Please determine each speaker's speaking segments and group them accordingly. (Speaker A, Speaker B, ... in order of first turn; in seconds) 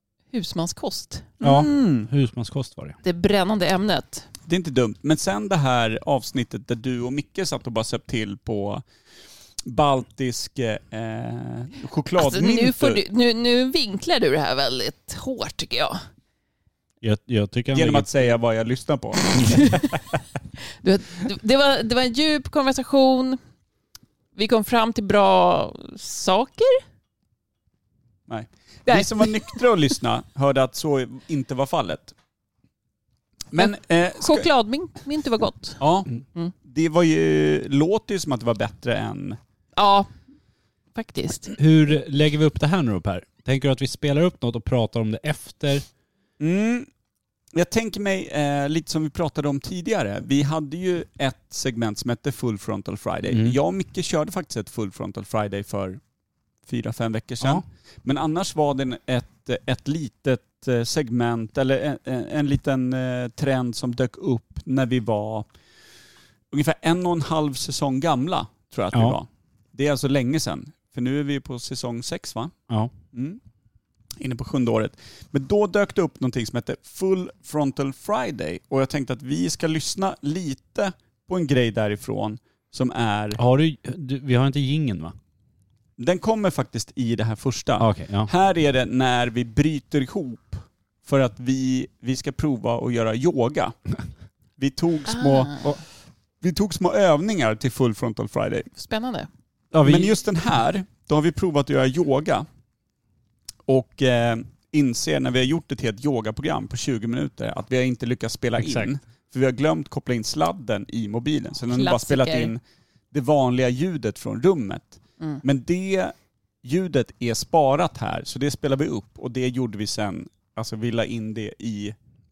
Speaker A: 0.3-1.6, 3.0-4.3, 12.2-16.0, 19.4-19.9, 20.8-23.4, 24.4-26.8, 28.9-29.6, 33.6-35.8, 39.8-40.1, 41.0-41.5, 95.1-95.6, 98.8-99.3, 111.7-112.5
Speaker B: 1.4-2.1, 4.5-8.8, 9.7-13.0, 17.7-19.8, 28.3-32.1, 33.5-34.5, 35.8-36.1, 36.6-39.4, 46.4-46.9, 47.5-56.0, 56.7-65.5, 66.5-72.5, 73.1-73.4, 74.2-83.4, 86.0-93.8, 94.6-95.8, 96.4-98.7, 99.8-102.5, 103.7-112.6, 113.1-122.0
Speaker C: 1.4-3.0, 17.0-18.3, 41.6-45.9, 53.3-53.6, 83.4-85.2, 87.8-88.3, 99.7-100.2, 108.6-108.9